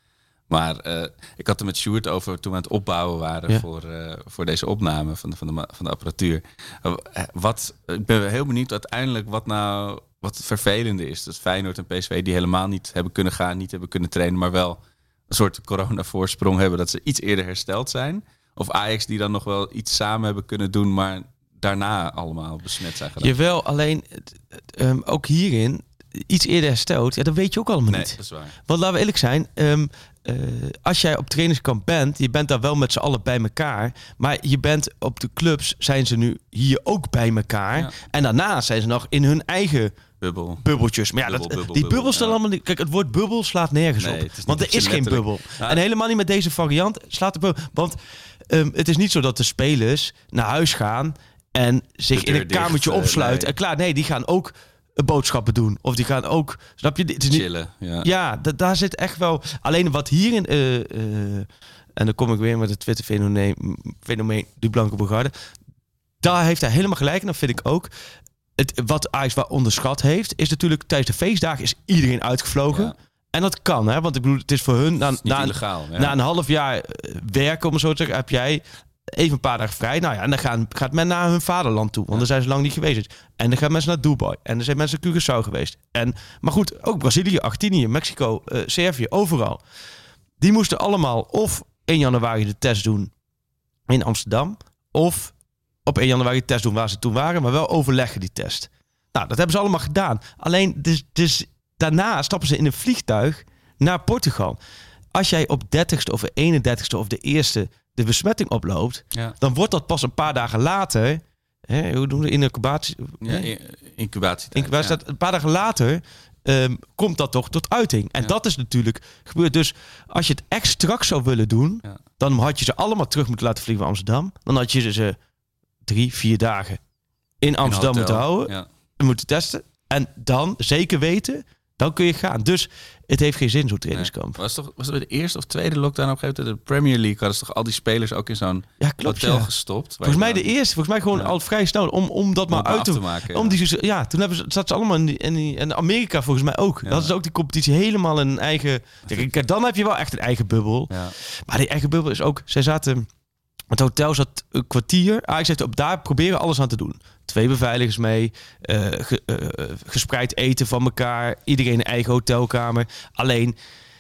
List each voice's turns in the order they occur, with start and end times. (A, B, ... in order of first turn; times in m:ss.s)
0:00.5-0:23.4 A
0:23.2-0:39.9 B
0:27.9-0:28.6 A
0:40.2-0:40.6 A
0:40.6-0:48.0 B
0:41.2-0:42.4 A
0:44.0-0:45.8 A
0:48.5-0:57.5 B
0:52.1-0:53.5 A
0:57.3-0:58.1 A
0:58.0-1:05.3 B
1:06.2-1:07.9 B
1:08.6-1:29.6 B
1:15.2-1:16.2 A
1:30.4-1:33.1 B
1:33.9-1:35.3 B
1:35.9-1:44.6 B
1:45.1-1:53.5 B
1:53.2-1:55.0 A
1:54.5-2:05.2 B
2:05.9-2:06.8 B
2:07.4-2:14.4 B
2:07.6-2:08.7 A
2:13.9-2:20.5 A
2:18.8-2:19.5 B
2:20.0-2:33.1 B
2:22.5-2:23.6 A
2:26.9-2:27.1 A
2:33.7-2:43.6 B